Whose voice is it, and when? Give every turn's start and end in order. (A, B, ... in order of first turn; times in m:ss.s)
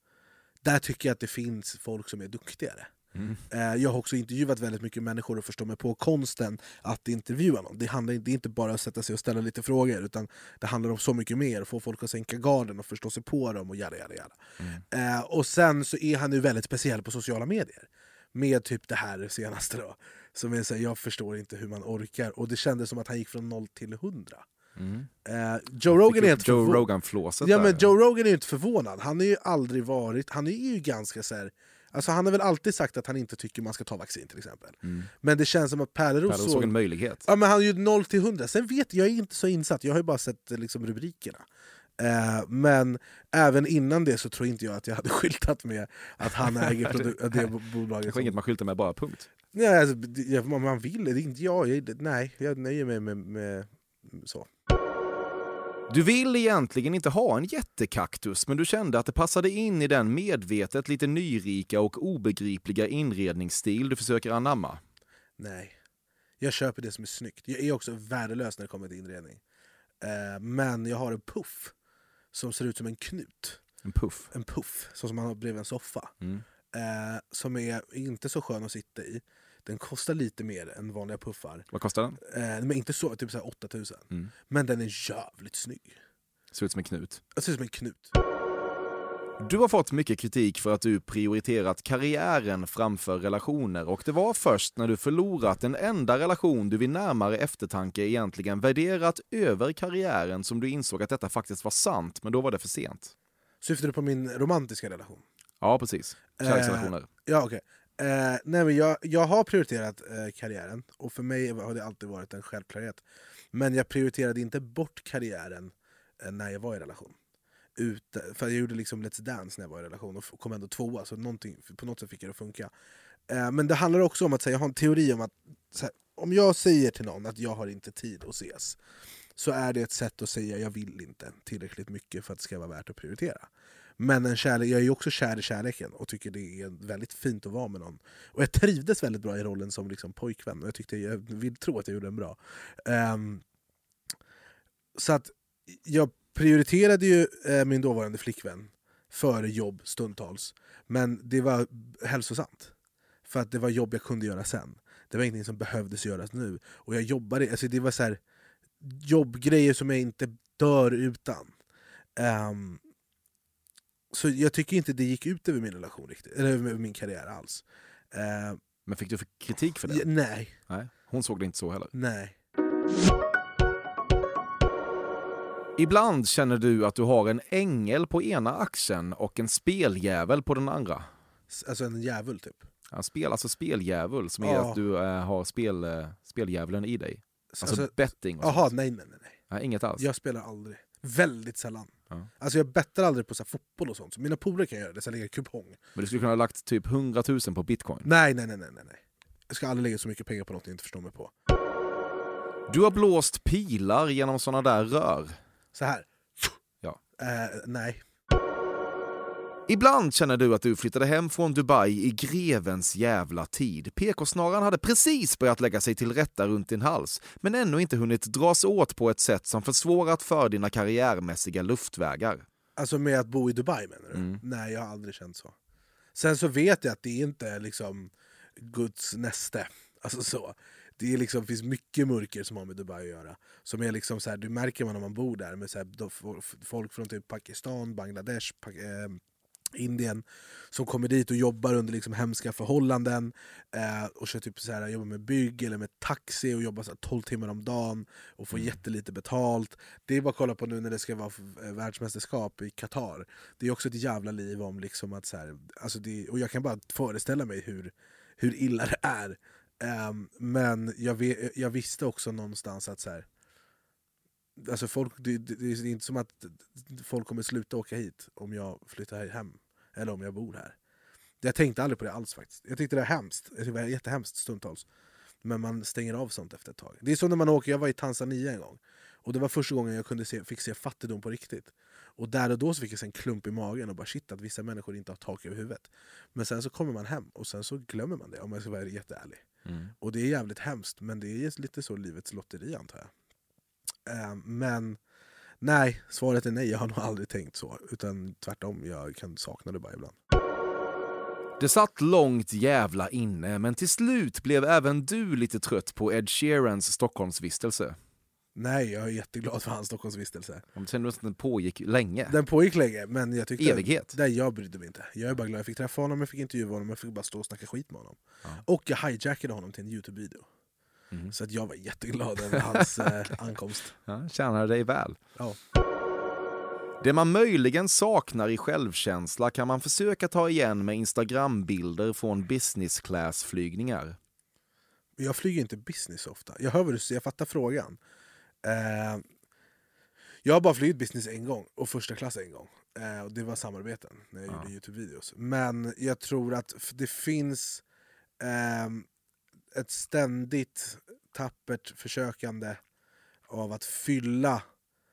0:00.6-0:02.9 A
0:03.2-0:03.4 B
0:03.5-0:14.4 A
0:14.9-0:24.4 A
0:24.8-0:25.1 B
0:25.2-0:26.9 A
0:25.9-0:27.9 B
0:27.4-0:36.7 A
0:34.8-0:35.1 B
0:36.3-0:37.2 B
0:37.2-0:41.4 A
0:42.0-0:48.4 A
0:46.4-0:47.5 B
0:48.1-0:49.3 B
0:49.5-0:54.5 A
0:55.9-1:04.8 B
1:05.4-1:05.8 A
1:06.4-1:09.4 A
1:10.0-1:11.7 A
1:12.3-1:13.6 A
1:13.8-1:14.3 B
1:14.3-1:16.1 A
1:16.7-1:21.7 A
1:21.7-1:22.2 B
1:22.2-1:26.0 A
1:26.5-1:27.2 B
1:27.4-1:28.1 A
1:29.4-1:43.1 B
1:43.6-1:45.2 A
1:45.6-1:47.1 B
1:46.4-1:53.0 A
1:53.5-1:57.2 A
1:57.8-2:02.7 A
2:03.3-2:08.8 A
2:09.4-2:13.5 A
2:14.0-2:23.4 A
2:25.0-2:32.7 A
2:33.3-2:38.2 A
2:38.8-2:41.5 A
2:42.2-2:42.8 A
2:44.1-2:48.6 A
2:48.9-2:50.1 B
2:49.9-2:50.6 A
2:50.7-2:51.9 B
2:51.9-2:52.4 A
2:55.8-3:01.1 B
3:01.5-3:02.6 A
3:02.9-3:08.7 B
3:04.4-3:04.8 A
3:07.5-3:09.4 A
3:09.5-3:10.1 B
3:10.0-3:15.8 A
3:16.0-3:18.1 B
3:18.0-3:19.0 A
3:19.5-3:21.3 A
3:22.7-3:25.4 B
3:25.7-3:26.6 A
3:27.2-3:28.0 A
3:29.7-3:42.4 B
3:42.8-3:45.5 A
3:44.1-3:44.4 B
3:46.2-3:59.2 A
3:59.7-4:23.3 A
4:24.6-4:30.8 A
4:31.4-4:34.8 A
4:35.4-4:49.4 A
4:49.7-4:49.9 B
4:50.0-4:53.1 A
4:54.1-4:55.0 A
4:55.6-5:00.2 A
5:01.6-5:08.0 B
5:08.6-5:10.6 A
5:10.8-5:12.4 B
5:12.3-5:20.5 A
5:13.6-5:14.2 B
5:21.3-5:23.9 A
5:22.5-5:23.3 B
5:24.1-5:25.2 B
5:27.0-5:34.2 B
5:35.2-5:38.0 A
5:38.6-5:39.2 A
5:40.4-5:47.8 A
5:48.4-5:49.1 A
5:49.7-5:52.8 A
5:53.5-5:54.6 A